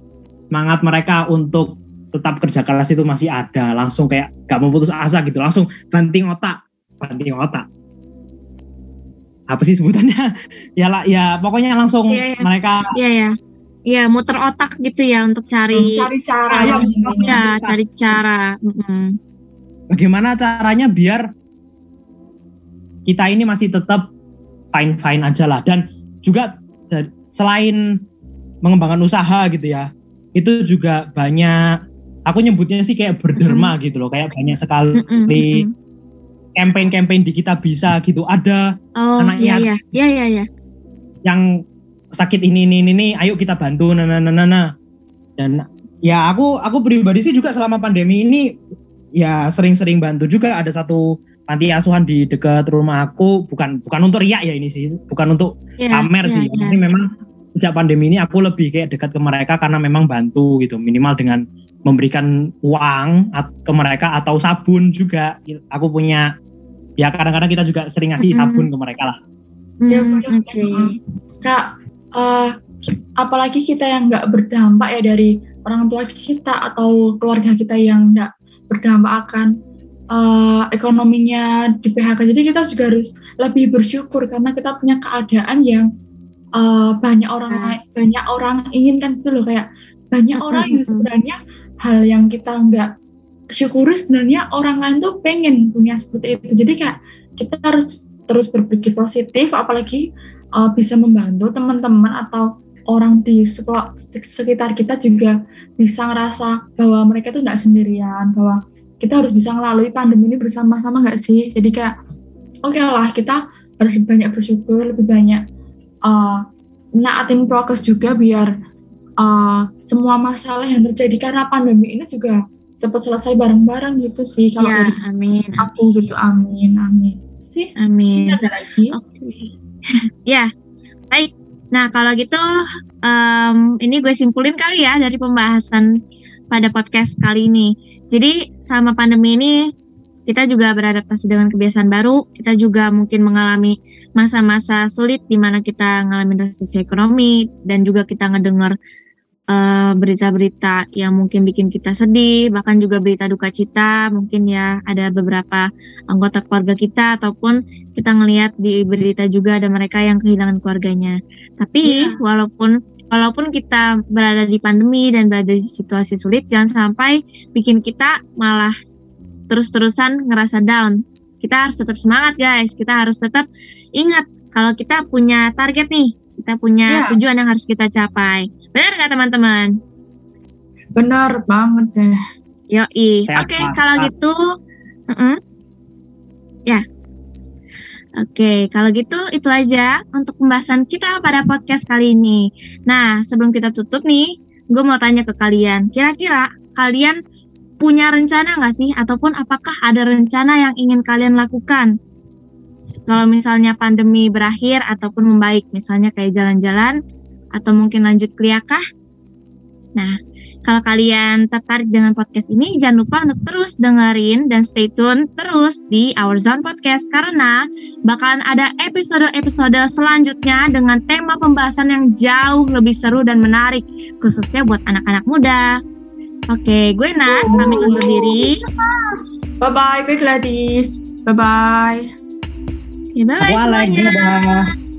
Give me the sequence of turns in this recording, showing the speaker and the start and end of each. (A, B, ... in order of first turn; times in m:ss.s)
0:00.5-0:07.7 A
0:09.5-0:10.2 A
0:10.8-0:12.9 A
0:12.1-0:13.3 B
0:13.9-0:19.2 B
0:15.7-0:17.4 C
0:16.6-0:17.8 A
0:19.9-0:21.2 A
0:23.1-0:24.1 A
0:24.7-0:27.8 A
0:28.6-0:31.6 A
0:32.3-0:35.6 A
0:33.4-0:33.7 B
0:35.0-0:35.7 B
0:36.6-0:38.6 A
0:39.0-0:40.5 B
0:39.2-0:39.7 A
0:42.2-0:44.7 A
0:45.4-0:48.4 A
0:49.2-1:06.2 A
0:55.8-0:56.8 B
1:07.0-1:09.2 A
1:08.2-1:08.7 B
1:09.8-1:10.9 B
1:09.9-1:11.6 C
1:12.2-1:19.5 C
1:20.1-1:25.9 C
1:26.6-1:32.9 C
1:27.5-1:27.8 B
1:30.4-1:31.1 B
1:33.6-1:40.0 C
1:40.6-1:51.9 C
1:52.6-1:55.4 C
1:56.1-1:56.4 C
1:57.0-1:58.5 C
1:59.2-2:05.0 C
2:04.6-2:05.7 B
2:05.6-2:08.9 C
2:07.8-2:08.4 B
2:08.9-2:09.5 B
2:11.1-2:12.4 B
2:13.1-2:15.9 B
2:16.5-2:19.6 B
2:20.3-2:28.7 B
2:29.5-2:48.7 B
2:41.8-2:42.2 C
2:49.5-2:53.5 B
2:54.0-2:59.7 B
2:56.9-2:57.2 C
3:01.0-3:02.2 C
3:02.7-3:04.4 B
3:03.3-3:04.1 A
3:05.1-3:05.4 B
3:08.2-3:17.2 B
3:17.8-3:21.9 B
3:23.1-3:27.0 B
3:27.6-3:28.8 B
3:30.0-3:45.7 B
3:46.5-3:48.6 B
3:47.3-3:52.1 C
3:53.2-3:54.2 B
3:53.4-3:54.6 A